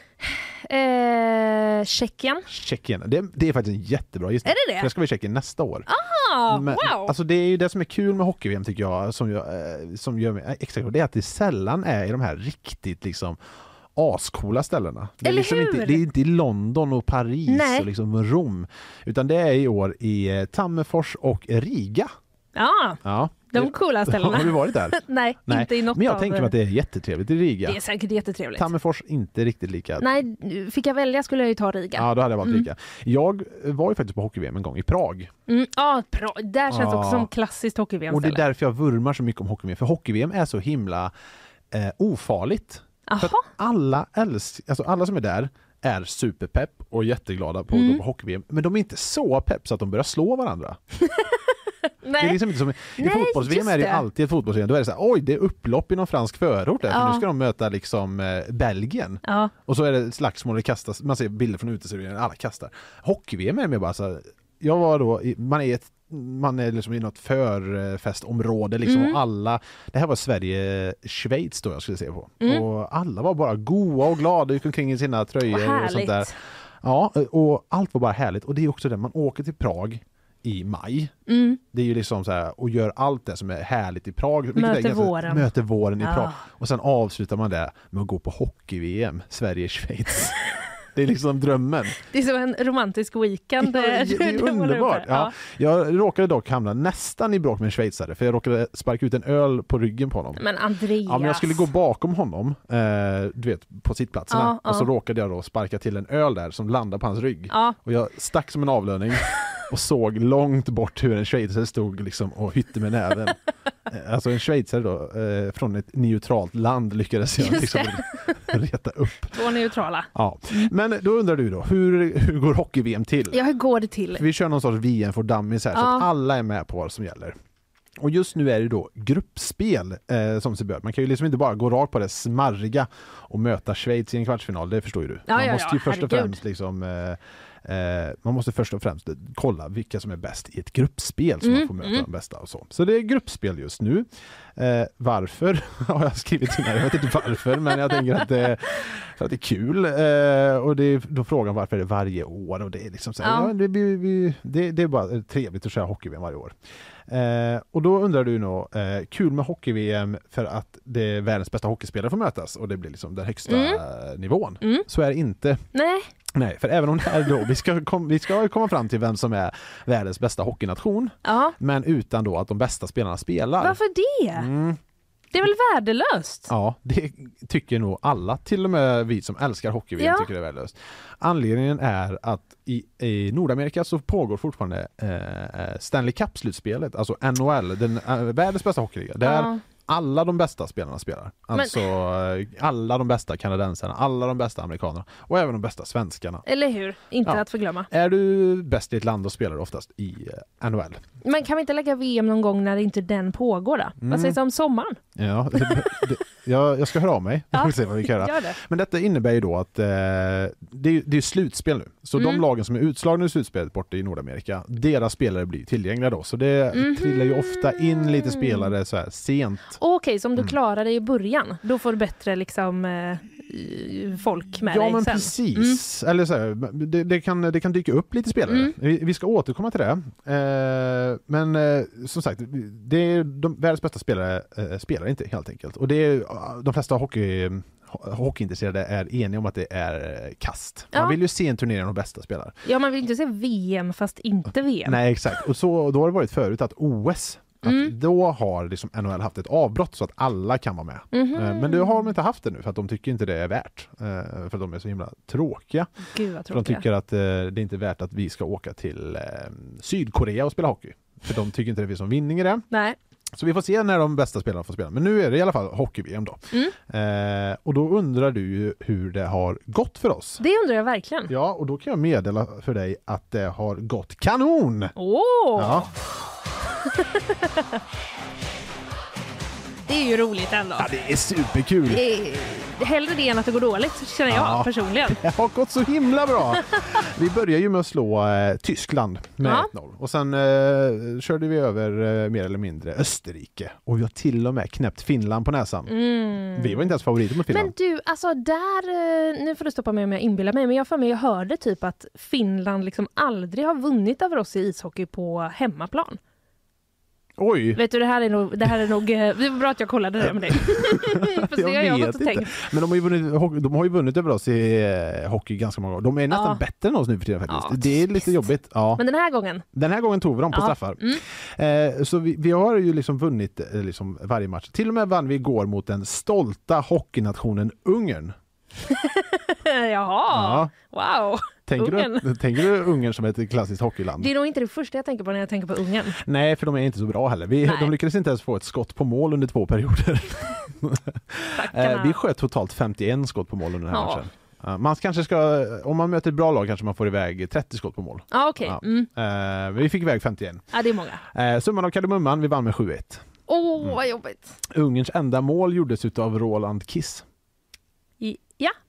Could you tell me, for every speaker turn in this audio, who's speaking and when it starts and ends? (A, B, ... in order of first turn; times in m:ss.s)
0:00.2-0:02.4 A
0:02.5-0:05.9 B
0:04.4-0:04.9 A
0:05.9-0:07.1 A
0:06.5-0:13.4 B
0:13.9-0:22.1 B
0:15.2-0:16.0 A
0:17.5-0:17.9 A
0:22.6-0:26.5 A
0:23.0-0:27.8 B
0:27.6-0:28.7 A
0:28.5-0:30.1 B
0:30.0-0:32.7 A
0:31.9-0:35.3 B
0:35.5-0:38.4 A
0:36.7-0:37.3 B
0:38.1-0:41.1 B
0:41.7-0:50.8 B
0:43.1-0:43.5 A
0:47.7-0:48.0 A
0:51.1-0:51.4 A
0:52.0-0:52.4 A
0:52.2-1:21.1 B
0:53.0-0:54.0 A
0:56.9-0:57.2 A
0:59.2-0:59.5 A
1:08.8-1:09.2 A
1:15.5-1:16.3 A
1:21.3-1:21.6 A
1:21.7-1:32.0 B
1:24.6-1:25.5 A
1:26.0-1:26.4 A
1:32.1-1:35.3 A
1:33.6-1:40.4 B
1:40.4-1:41.7 A
1:41.0-1:59.4 B
1:44.3-1:44.9 A
1:47.5-1:47.8 A
1:57.4-1:58.5 A
1:59.3-2:00.7 A
2:00.1-2:03.4 B
2:03.3-2:04.2 A
2:04.2-2:07.3 B
2:05.7-2:06.0 A
2:08.0-2:36.5 B
2:15.3-2:16.4 A
2:21.4-2:22.0 A
2:33.2-2:33.5 A
2:37.1-2:45.6 B
2:43.5-2:43.8 A
2:45.7-2:46.1 A
2:46.3-2:53.8 B
2:51.2-2:51.5 A
2:53.6-2:54.5 A
2:54.3-2:54.8 B
2:55.3-2:56.5 A
2:56.5-3:16.4 B
3:00.0-3:00.3 A
3:09.2-3:09.6 A
3:11.5-3:11.8 A
3:16.4-3:17.9 A
3:17.2-3:21.0 B
3:21.2-3:25.0 A
3:24.0-3:24.4 B
3:25.1-3:39.8 B
3:25.6-3:26.0 A
3:27.5-3:28.6 A
3:32.2-3:32.4 A
3:36.7-3:38.7 A
3:39.8-3:45.8 A
3:44.6-4:02.6 B
4:02.6-4:05.0 A
4:04.8-4:15.9 B
4:07.6-4:07.9 A
4:11.1-4:12.1 A
4:16.1-4:16.8 A
4:16.5-4:22.6 B
4:22.7-4:23.0 A
4:23.3-4:30.4 B
4:30.4-4:31.3 A
4:31.3-4:34.9 B
4:35.0-4:35.9 A
4:35.6-4:35.9 B
4:36.9-4:37.6 A
4:39.9-4:40.9 A
4:40.8-4:42.0 B
4:41.9-4:45.2 A
4:44.3-4:55.9 B
4:49.4-4:49.7 A
4:55.9-4:57.0 A
4:56.5-4:57.7 B
4:57.5-5:06.2 A
5:07.4-5:07.8 B
5:07.8-5:12.5 A
5:10.2-5:19.0 B
5:16.3-5:16.6 A
5:17.5-5:18.0 A
5:19.0-5:19.6 A
5:19.7-5:28.3 B
5:20.5-5:21.2 A
5:28.9-5:32.3 A
5:30.3-5:30.7 B
5:31.7-5:34.3 B
5:34.2-5:36.2 A
5:36.2-5:50.7 B
5:37.6-5:37.9 A
5:41.6-5:42.2 A
5:43.9-5:44.2 A
5:48.3-5:49.1 A
5:50.7-5:51.2 A
5:51.3-5:53.2 B
5:53.5-5:54.6 A
5:54.7-5:57.2 B
5:58.2-5:58.7 A